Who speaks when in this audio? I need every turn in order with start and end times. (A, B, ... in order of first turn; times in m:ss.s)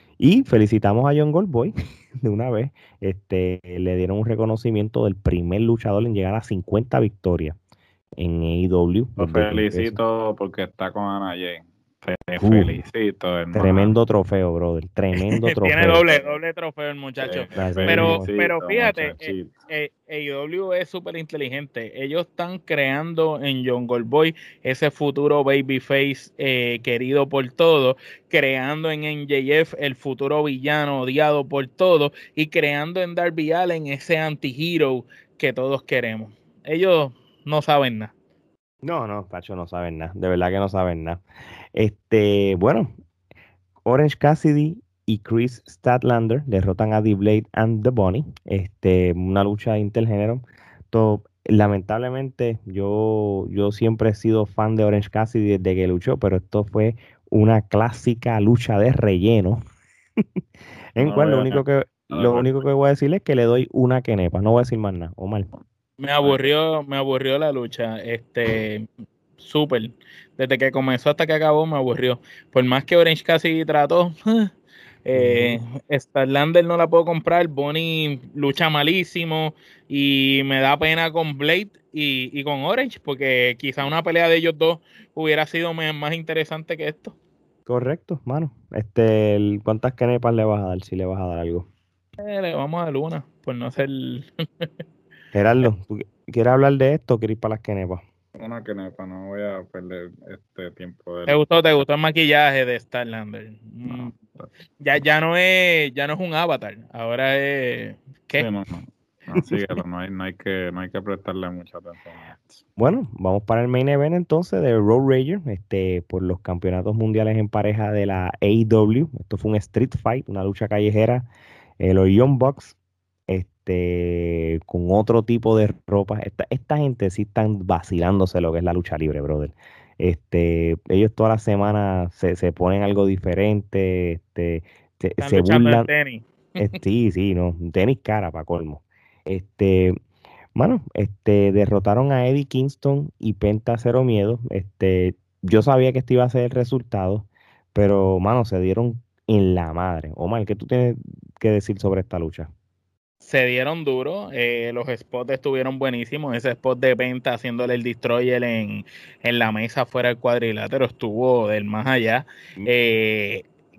0:00.2-0:07.6 A
0:08.2-0:10.0 A
0:09.2-0:13.9 B
0:12.4-0:12.8 A
0:13.5-0:16.0 A
0:15.2-0:38.1 C
0:16.0-0:16.4 B
0:17.2-0:19.5 B
0:17.6-0:18.2 A
0:38.8-0:41.2 A
0:41.7-0:42.9 A
0:43.8-0:59.6 A
1:01.0-1:05.5 A
1:01.0-1:01.5 C
1:01.1-1:01.6 B
1:02.1-1:02.5 B
1:06.0-1:08.9 C
1:06.2-1:06.5 B
1:09.4-1:14.5 C
1:15.0-1:27.2 C
1:15.1-1:15.6 A
1:27.7-1:31.7 A
1:32.2-1:34.7 C
1:35.3-1:38.0 A
1:38.4-1:41.8 B
1:41.3-1:44.2 C
1:44.8-1:48.4 C
1:48.4-1:52.6 B
1:52.8-2:01.3 A
2:01.8-2:02.8 A
2:03.3-2:15.9 A
2:15.2-2:16.7 C
2:16.6-2:19.9 A
2:20.6-2:32.5 A
2:33.2-2:43.5 C